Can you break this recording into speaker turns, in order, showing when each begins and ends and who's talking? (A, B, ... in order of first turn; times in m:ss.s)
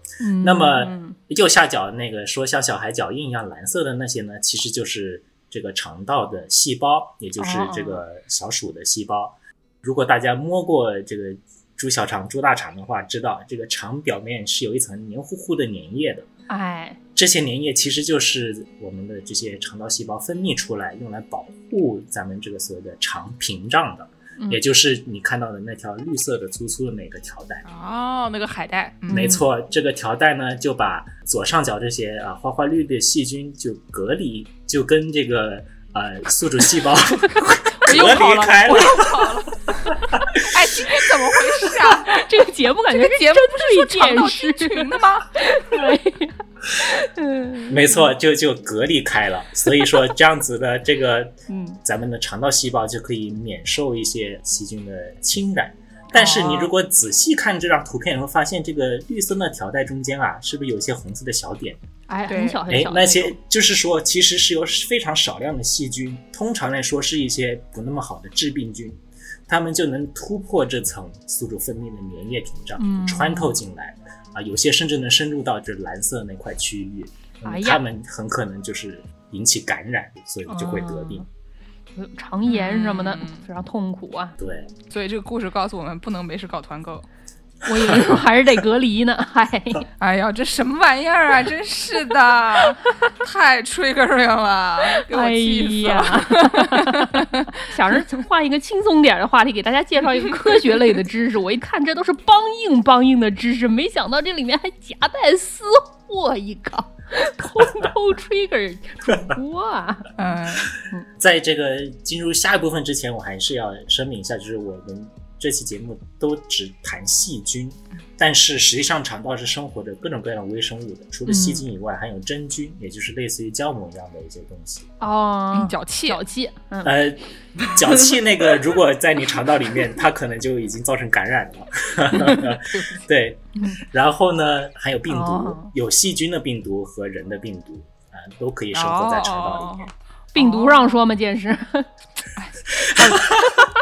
0:00.2-0:01.2 A
0:00.4-0:16.3 B
0:07.4-0:08.0 A
0:16.5-0:17.0 A
0:17.2-0:27.6 B
0:27.6-0:29.3 C
0:29.1-0:29.5 A
0:29.1-0:39.4 B
0:37.8-0:39.8 C
0:40.0-0:41.2 B
0:40.4-0:42.3 C
0:42.1-0:48.1 A
0:42.9-0:45.4 C
0:47.7-1:01.8 B
0:51.5-0:51.8 A
0:56.1-0:56.7 A
1:02.1-1:03.4 A
1:02.3-1:02.6 C
1:02.7-1:21.3 B
1:12.8-1:13.6 A
1:17.4-1:17.8 A
1:20.5-1:21.3 A
1:22.0-1:24.4 A
1:22.5-1:23.4 C
1:24.4-1:24.7 B
1:24.9-1:27.1 C
1:27.6-1:29.9 A
1:30.0-1:37.5 C
1:35.1-1:50.1 A
1:50.2-1:50.7 C
1:51.2-2:04.9 B
2:01.3-2:01.6 A
2:05.0-2:07.0 A
2:05.5-2:06.2 C
2:06.8-2:19.9 B
2:15.1-2:15.7 A
2:18.7-2:21.0 C
2:20.4-2:21.9 A
2:22.4-2:23.5 C
2:23.0-2:23.3 A